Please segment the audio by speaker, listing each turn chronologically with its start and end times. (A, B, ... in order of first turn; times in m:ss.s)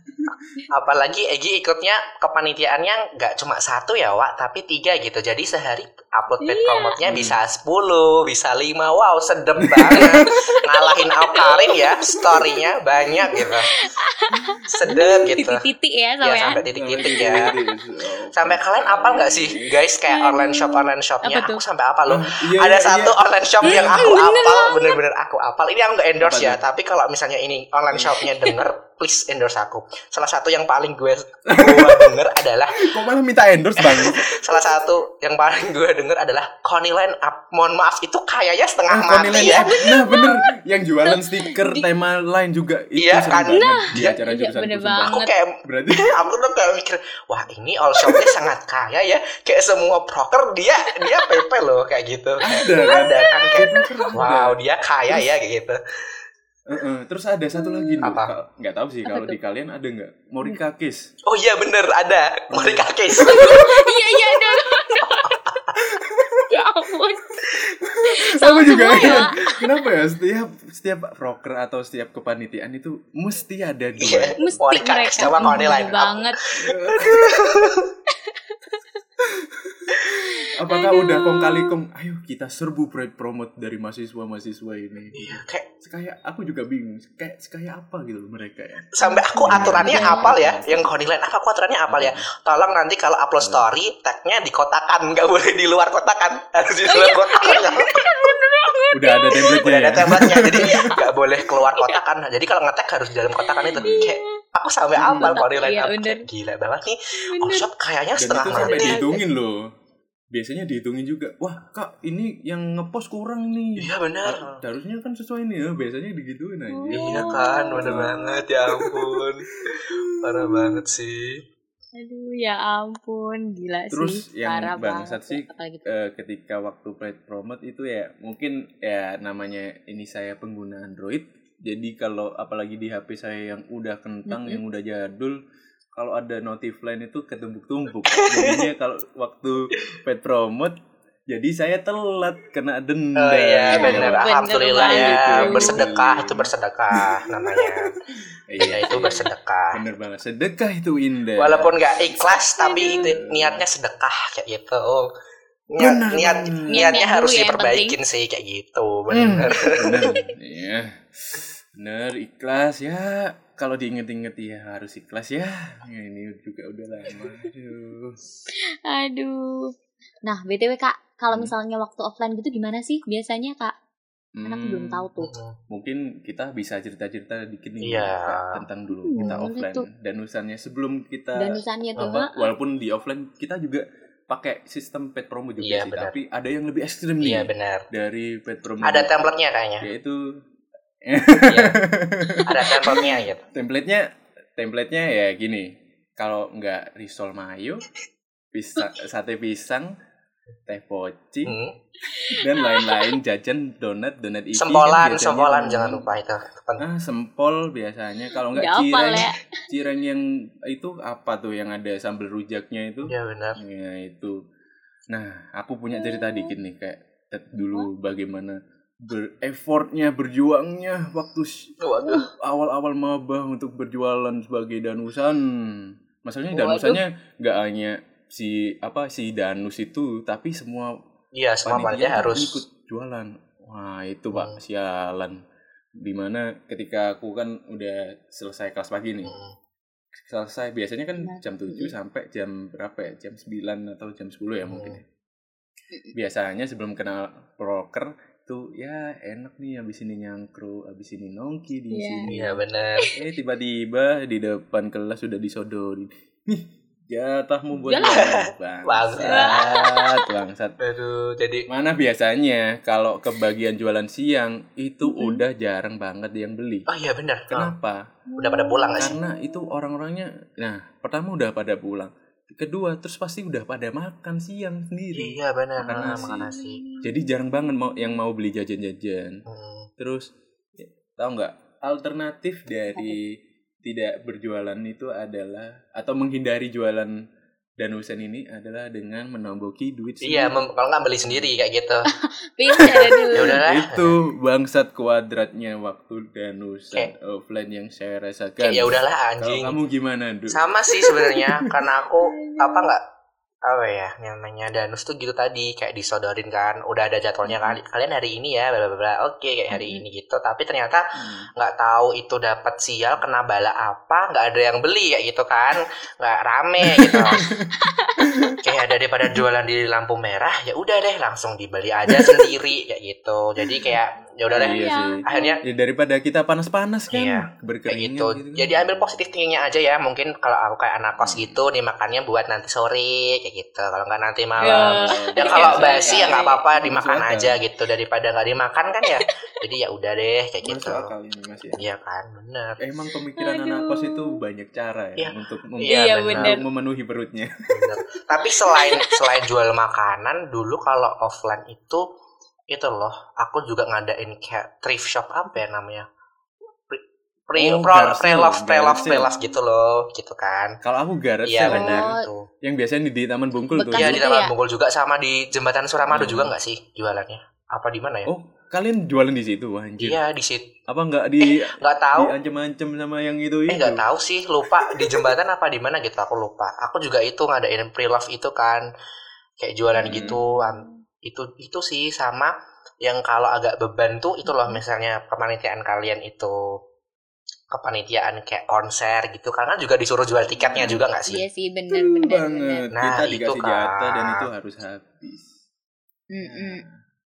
0:00.7-0:13.7 A
0:06.4-0:06.9 B
0:07.0-0:07.4 C
0:09.6-0:10.3 C
0:10.0-0:12.7 B
0:13.3-0:17.6 B
0:14.3-0:14.9 C
0:14.7-0:15.6 A
0:16.2-0:17.5 A
0:16.6-0:19.8 C
0:18.4-0:33.0 A
0:20.1-0:21.6 B
0:22.1-0:24.1 C
0:23.6-0:25.0 B
0:26.2-0:26.6 C
0:28.2-0:28.6 B
0:31.5-0:32.1 C
0:32.8-0:34.4 C
0:33.8-0:39.9 A
0:38.9-0:46.2 C
0:39.3-0:40.4 B
0:41.1-0:41.8 B
0:43.0-0:44.1 A
0:43.5-0:45.3 B
0:45.1-0:55.8 A
0:51.0-0:51.4 B
0:52.4-0:54.6 C
0:52.4-0:54.1 B
0:56.7-1:01.0 C
0:57.6-0:58.0 B
0:58.0-0:58.3 A
0:59.0-0:59.4 B
1:01.2-1:03.8 A
1:02.5-1:03.6 C
1:03.2-1:05.4 B
1:05.2-1:05.7 A
1:05.9-1:06.4 C
1:06.5-1:07.3 B
1:07.8-1:14.5 C
1:08.0-1:09.6 B
1:08.9-1:09.2 A
1:14.0-1:17.9 A
1:14.4-1:16.4 B
1:15.4-1:16.0 C
1:16.6-1:17.7 C
1:18.2-1:18.8 B
1:19.2-1:28.9 C
1:20.4-1:21.7 B
1:25.1-1:25.6 A
1:28.9-1:38.0 A
1:29.0-1:30.3 B
1:29.4-1:30.9 C
1:31.9-1:32.2 C
1:33.4-1:33.7 C
1:36.9-1:39.4 B
1:38.9-1:40.8 C
1:39.3-1:49.1 A
1:40.4-1:42.0 B
1:43.4-1:44.4 B
1:43.8-1:44.1 C
1:45.0-1:45.4 C
1:45.0-1:46.2 B
1:47.2-1:47.7 B
1:48.2-1:49.7 C
1:48.5-1:49.2 B
1:50.3-1:59.2 C
1:53.8-1:54.6 A
1:56.7-1:58.1 B
1:56.9-2:01.4 A
1:59.7-2:00.6 C
2:02.0-2:05.9 B
2:03.9-2:15.4 C
2:14.3-2:14.6 B
2:16.0-2:20.8 C
2:18.1-2:18.7 A
2:21.3-2:27.1 C
2:23.2-2:27.9 A
2:23.7-2:25.8 B
2:28.5-2:32.2 C
2:28.6-2:29.8 A
2:28.6-2:29.3 B
2:31.4-2:35.1 A
2:32.2-2:33.1 B
2:32.9-2:33.6 C
2:35.7-2:40.2 A
2:35.8-2:37.0 C
2:36.7-2:38.0 B
2:39.1-2:48.2 C
2:48.8-2:49.7 B
2:50.2-2:53.7 B
2:54.4-2:55.1 C
2:54.4-2:55.3 B
2:55.2-2:55.6 A
2:55.7-3:01.6 C
2:57.8-2:58.6 A
2:59.0-2:59.9 B
3:01.4-3:02.3 B
3:02.0-3:02.2 A
3:02.1-3:09.3 C
3:05.6-3:06.1 A
3:07.2-3:07.8 A
3:08.8-3:09.9 A
3:09.8-3:10.4 C
3:11.0-3:17.8 C
3:11.5-3:11.8 A
3:12.4-3:13.4 A
3:18.5-3:19.9 C
3:20.7-3:21.6 C
3:21.4-3:21.7 A
3:22.1-3:23.0 B
3:22.3-3:26.1 C
3:24.6-3:26.9 A
3:26.8-3:34.4 C
3:28.5-3:29.5 B
3:33.0-3:33.6 A
3:35.1-3:51.0 C
3:35.9-3:36.5 B
3:37.6-3:37.9 B
3:41.8-3:42.3 A
3:42.0-3:42.3 B
3:46.5-3:47.0 B
3:51.3-3:52.6 A
3:51.6-3:55.4 C
3:56.0-3:59.3 C
3:59.2-3:59.5 A
4:00.2-4:05.0 C
4:01.2-4:01.9 B
4:04.6-4:05.0 A
4:06.1-4:12.5 C
4:11.9-4:12.4 B
4:12.3-4:13.1 A
4:13.2-4:20.8 C
4:17.8-4:18.3 B
4:18.0-4:19.7 A
4:19.2-4:20.2 B
4:20.8-4:21.7 A
4:21.7-4:26.9 C
4:25.1-4:25.4 B
4:26.9-4:27.7 A
4:27.5-4:28.0 C
4:28.3-4:29.7 B
4:28.4-4:29.2 A
4:29.0-4:39.4 C
4:35.1-4:36.8 A
4:35.9-4:37.3 B
4:39.5-4:39.9 A
4:40.0-4:47.2 C
4:47.8-4:50.5 C
4:50.2-4:52.1 A
4:51.2-4:51.6 C
4:52.1-4:53.6 B
4:52.8-5:01.7 C
4:53.3-4:54.1 A
4:58.6-4:59.8 A
5:00.5-5:03.0 A
5:02.3-5:02.9 B
5:03.6-5:17.5 A
5:07.4-5:07.8 B
5:09.7-5:10.0 B
5:11.2-5:11.5 C
5:16.8-5:17.7 C
5:17.7-5:18.7 B
5:18.3-5:18.5 C
5:18.6-5:25.6 A
5:22.1-5:22.5 C
5:23.6-5:24.0 C
5:24.5-5:29.2 C
5:24.5-5:25.5 B
5:27.1-5:41.1 A
5:31.2-5:31.6 C
5:34.6-5:36.6 B
5:34.6-5:37.5 C
5:40.6-5:41.8 C
5:41.8-5:42.8 A
5:42.8-5:47.9 C
5:43.4-5:44.4 B
5:45.2-5:46.6 A
5:45.9-5:46.6 B
5:47.7-5:52.1 A
5:48.7-5:49.2 B
5:52.7-5:56.1 A
5:56.9-6:00.8 A
5:57.6-5:59.4 C
5:59.1-5:59.5 B
6:00.8-6:04.2 C
6:01.4-6:02.5 A
6:01.7-6:02.3 B
6:03.8-6:04.5 B
6:03.9-6:08.3 A
6:06.1-6:06.5 C
6:08.2-6:10.2 C
6:10.0-6:10.7 A
6:10.9-6:14.0 C
6:11.4-6:12.3 A
6:13.7-6:18.8 A
6:14.8-6:15.2 C
6:19.6-6:26.8 A
6:19.9-6:21.0 B
6:20.0-6:20.4 C
6:24.4-6:24.8 B
6:27.7-6:31.4 A
6:30.5-6:31.0 C
6:30.8-6:32.9 B
6:31.9-6:35.5 C
6:32.9-6:34.5 A
6:36.3-6:36.8 B
6:36.4-6:37.0 C